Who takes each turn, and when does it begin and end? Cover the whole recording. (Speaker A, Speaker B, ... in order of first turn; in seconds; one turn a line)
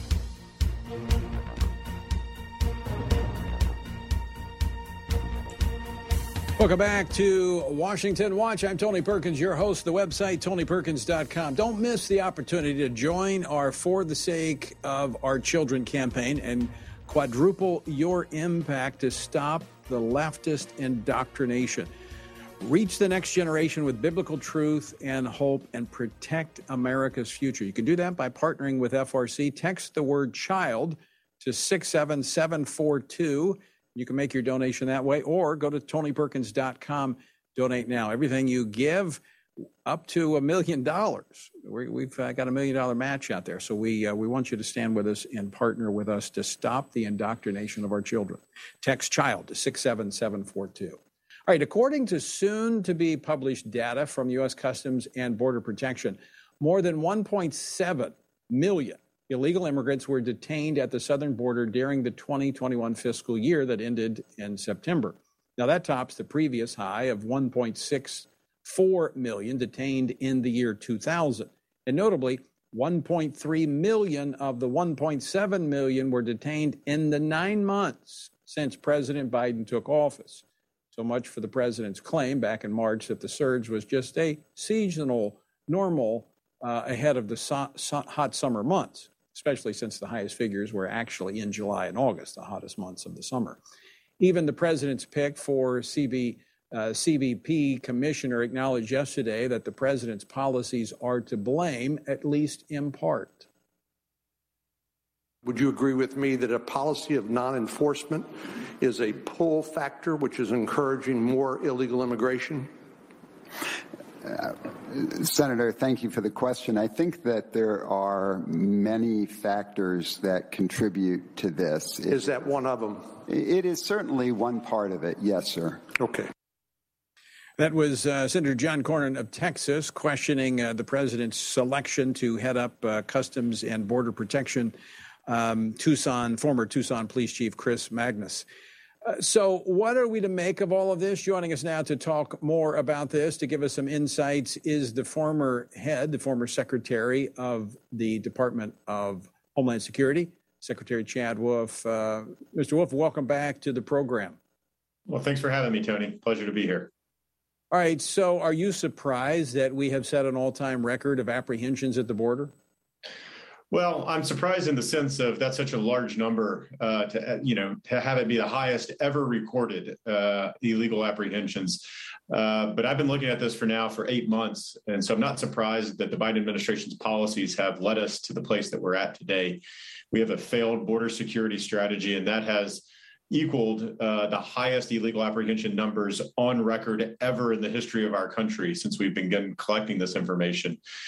Speaker A: 6.6-21.9
Speaker A: 22.6-39.2
Speaker A: 39.9-93.6
Speaker A: 94.2-103.5
Speaker B: 105.4-112.7
Speaker C: 114.2-122.2
Speaker B: 122.1-123.2
Speaker C: 123.3-125.9
Speaker B: 126.0-126.3
Speaker A: 127.6-134.8
Speaker A: 135.3-138.5
Speaker A: 139.1-154.4
Speaker D: 155.1-156.9
Speaker A: 157.7-162.5
Speaker D: 163.7-190.8